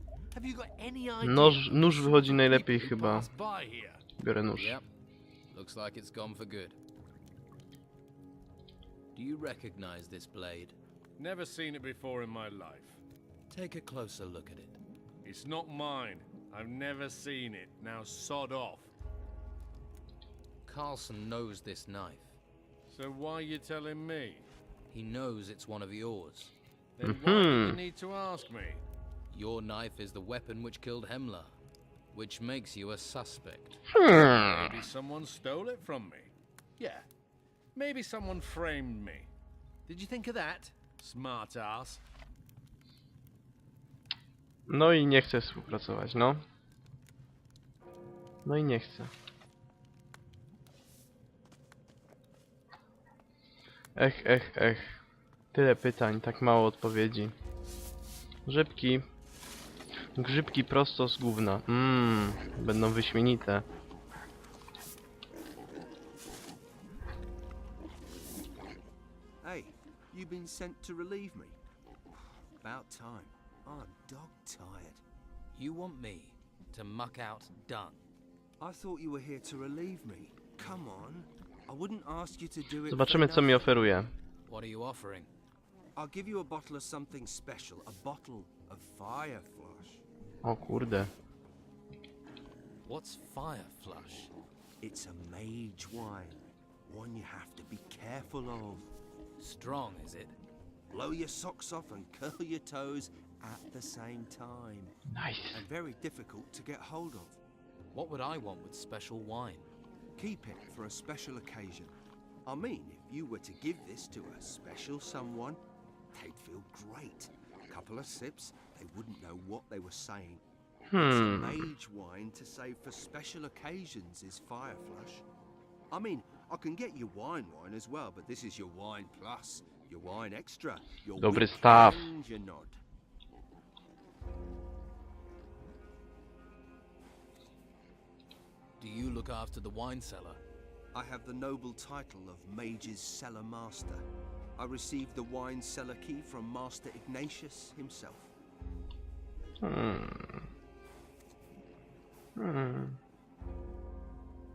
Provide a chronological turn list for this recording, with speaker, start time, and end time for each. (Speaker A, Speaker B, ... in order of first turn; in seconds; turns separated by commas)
Speaker A: 0.3-4.0, Speaker B: 1.2-3.3, Speaker B: 4.2-4.8, Speaker C: 4.6-4.8, Speaker C: 5.5-6.8, Speaker C: 9.2-10.8, Speaker A: 11.2-13.0, Speaker C: 13.5-14.8, Speaker A: 15.2-18.9, Speaker C: 20.7-22.4, Speaker A: 22.9-24.5, Speaker C: 24.9-26.5, Speaker A: 27.0-28.8, Speaker B: 27.0-27.8, Speaker C: 29.3-31.6, Speaker C: 32.1-33.8, Speaker B: 33.9-34.8, Speaker A: 34.0-37.1, Speaker A: 37.8-39.3, Speaker A: 39.9-42.0, Speaker B: 44.7-46.4, Speaker B: 48.5-49.1, Speaker B: 54.0-55.0, Speaker B: 55.5-57.3, Speaker B: 58.5-59.0, Speaker B: 60.2-63.6, Speaker D: 69.4-71.6, Speaker D: 72.6-75.0, Speaker C: 75.5-78.0, Speaker D: 78.6-83.6, Speaker B: 82.9-84.1, Speaker C: 84.5-85.3, Speaker D: 86.0-90.0, Speaker B: 90.4-91.1, Speaker C: 92.8-94.3, Speaker D: 94.8-98.9, Speaker C: 99.4-100.4, Speaker D: 100.9-105.0, Speaker B: 105.1-105.7, Speaker D: 105.5-107.4, Speaker C: 107.9-109.7, Speaker D: 110.2-111.9, Speaker D: 112.5-115.6, Speaker D: 116.1-120.4, Speaker B: 120.9-121.6, Speaker D: 121.0-125.2, Speaker D: 125.9-132.8, Speaker B: 131.2-132.1, Speaker C: 138.8-140.4, Speaker D: 140.9-144.0, Speaker D: 144.6-148.3, Speaker B: 149.6-150.5, Speaker B: 152.4-153.0